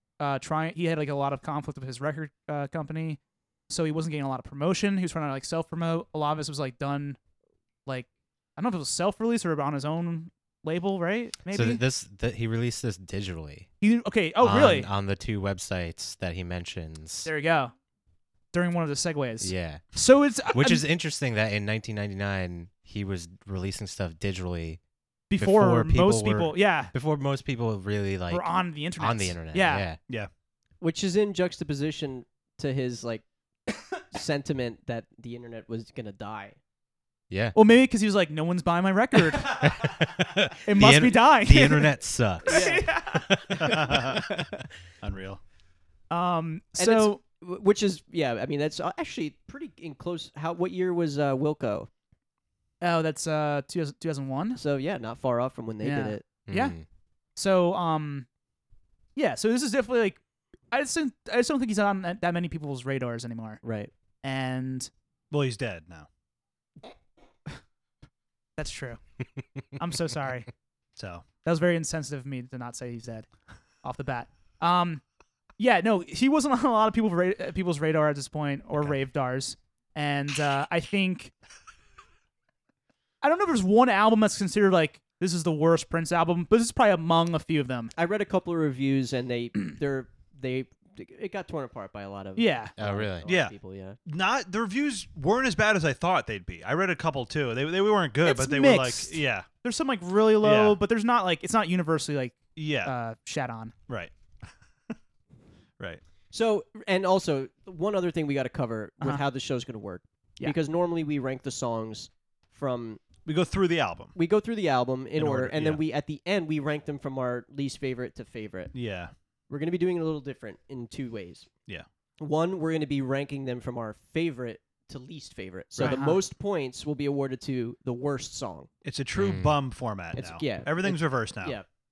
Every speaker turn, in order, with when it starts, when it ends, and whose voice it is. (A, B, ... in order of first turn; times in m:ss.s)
0:00.2-0:07.2 A
0:07.8-0:11.8 A
0:11.5-0:13.7 B
0:13.8-0:14.9 A
0:14.4-0:17.3 B
0:17.2-0:17.7 A
0:18.5-0:20.8 A
0:19.4-0:19.8 B
0:20.5-0:24.8 B
0:25.3-0:26.9 A
0:25.4-0:30.0 B
0:28.3-0:29.8 A
0:30.8-0:33.2 C
0:34.1-0:36.6 C
0:37.3-0:37.6 B
0:37.5-0:39.6 A
0:39.5-0:44.2 B
0:40.6-0:44.2 A
0:42.5-0:42.8 C
0:43.6-0:44.2 D
0:45.0-0:45.4 D
0:46.1-0:47.2 A
0:46.8-0:51.9 C
0:52.8-0:54.6 A
0:54.6-0:56.2 C
0:55.8-0:56.8 A
0:56.5-0:56.8 B
0:57.4-0:58.3 A
0:59.2-1:00.2 A
1:00.7-1:03.6 A
1:03.6-1:03.9 C
1:04.2-1:04.9 A
1:05.3-1:06.1 D
1:08.6-1:09.0 A
1:09.8-1:10.5 A
1:11.0-1:11.2 D
1:11.4-1:13.3 A
1:13.8-1:15.0 A
1:15.6-1:21.3 A
1:23.2-1:27.9 A
1:27.9-1:34.0 C
1:32.4-1:32.7 A
1:32.8-1:33.3 B
1:33.2-1:33.5 D
1:34.0-1:39.5 D
1:38.2-1:43.7 A
1:40.4-1:40.8 D
1:42.6-1:42.9 D
1:43.9-1:44.1 D
1:46.3-1:53.0 C
1:53.2-1:54.1 D
1:54.1-1:58.8 C
1:55.2-1:55.8 D
1:58.7-1:59.1 D
1:59.5-2:01.5 C
2:02.2-2:08.7 C
2:05.8-2:06.2 A
2:08.8-2:11.6 D
2:09.1-2:09.6 B
2:10.1-2:11.6 C